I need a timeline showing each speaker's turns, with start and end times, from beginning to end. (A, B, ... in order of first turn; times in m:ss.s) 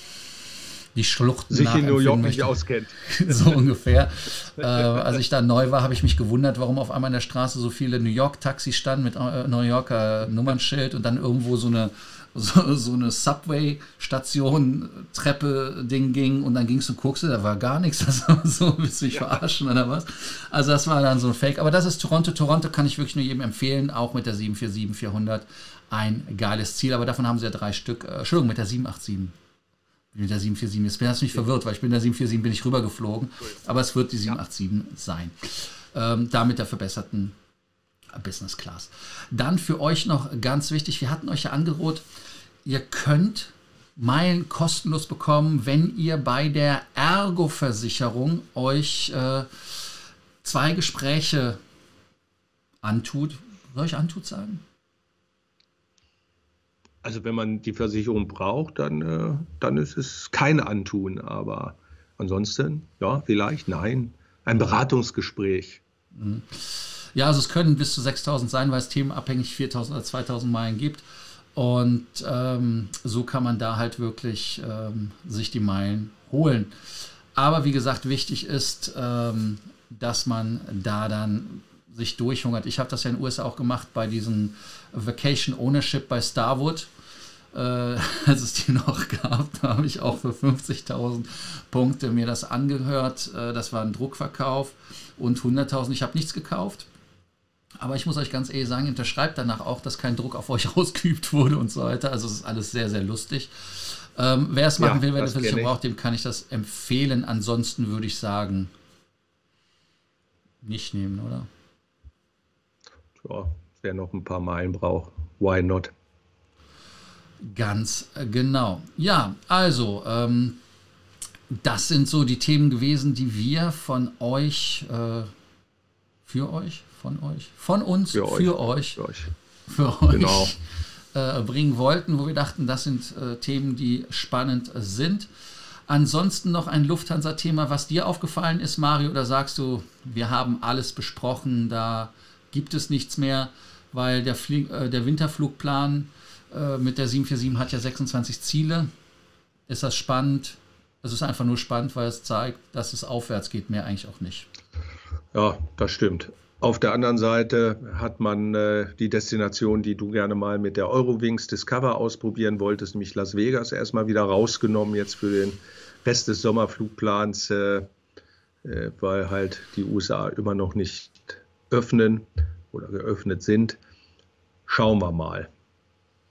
0:00.9-0:29.3 A
0:01.5-0:03.6 B
0:30.1-0:37.3 A
0:38.1-0:42.0 A
0:42.6-0:51.6 A
0:52.8-0:54.6 A
0:57.0-1:05.8 B
1:06.1-1:11.0 A
1:11.6-1:16.7 A
1:17.3-1:26.9 A
1:27.5-1:36.9 A
1:37.8-1:48.7 A
1:44.8-1:45.8 B
1:50.6-1:51.5 A
1:53.2-1:55.9 B
1:57.4-2:00.6 A
2:01.5-2:05.3 A
2:06.2-2:09.0 A
2:08.1-2:09.3 B
2:09.7-2:10.6 A
2:10.1-2:10.5 B
2:11.1-2:15.3 A
2:15.9-2:28.9 A
2:29.7-2:34.5 A
2:35.3-2:47.8 B
2:48.6-2:53.8 B
2:54.7-2:55.5 B